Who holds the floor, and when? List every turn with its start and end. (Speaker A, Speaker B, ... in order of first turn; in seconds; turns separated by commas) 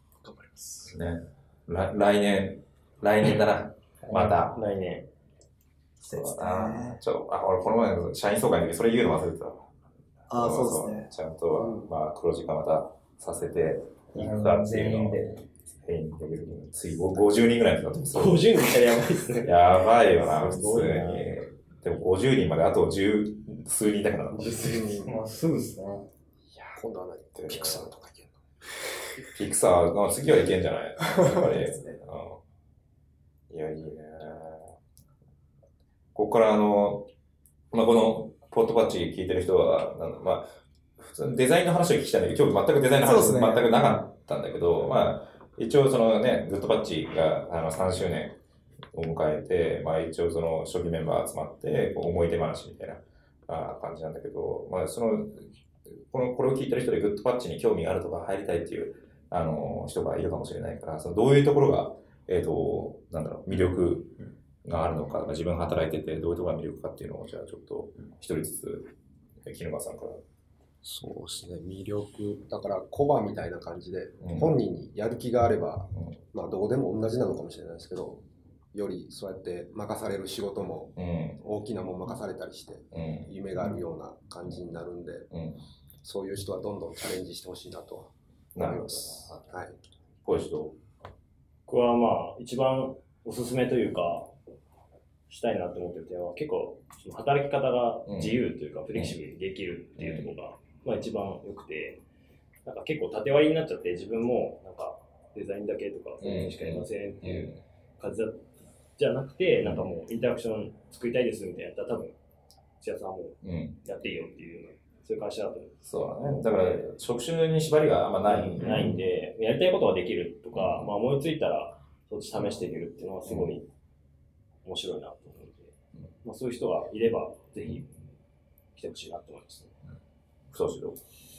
Speaker A: 0.2-0.9, Speaker B: 0.9-4.6, Speaker C: 4.0-4.5, Speaker D: 4.5-5.1, Speaker A: 6.0-7.0, Speaker B: 6.0-9.7, Speaker A: 10.3-11.1, Speaker B: 10.3-18.6, Speaker E: 11.6-11.9, Speaker C: 14.1-15.4, Speaker D: 18.1-21.3, Speaker B: 19.4-24.9, Speaker D: 24.3-25.1, Speaker E: 24.5-25.1, Speaker C: 25.0-26.1, Speaker E: 26.7-28.3, Speaker B: 27.5-27.8, Speaker B: 29.3-32.4, Speaker A: 31.3-31.9, Speaker B: 33.5-34.7, Speaker B: 36.1-37.1, Speaker B: 37.7-40.4, Speaker B: 41.0-48.4, Speaker A: 43.0-43.7, Speaker B: 48.9-64.1, Speaker B: 64.6-68.9, Speaker B: 69.4-70.2, Speaker E: 70.8-78.2, Speaker B: 74.2-74.5, Speaker E: 78.7-85.3, Speaker B: 81.0-81.4, Speaker B: 82.9-83.8, Speaker B: 85.3-85.6, Speaker E: 86.0-89.8, Speaker B: 88.5-89.3, Speaker B: 90.2-90.8, Speaker D: 91.7-94.3, Speaker D: 95.3-102.0, Speaker B: 98.1-98.4, Speaker B: 100.0-100.3, Speaker D: 102.7-112.2, Speaker B: 106.2-107.6, Speaker B: 109.6-109.9, Speaker D: 112.8-116.9, Speaker B: 113.4-113.8, Speaker B: 115.8-119.0, Speaker D: 118.3-123.7, Speaker B: 120.5-120.9, Speaker B: 123.3-123.6, Speaker D: 124.7-127.9, Speaker D: 128.8-129.8, Speaker B: 130.5-131.0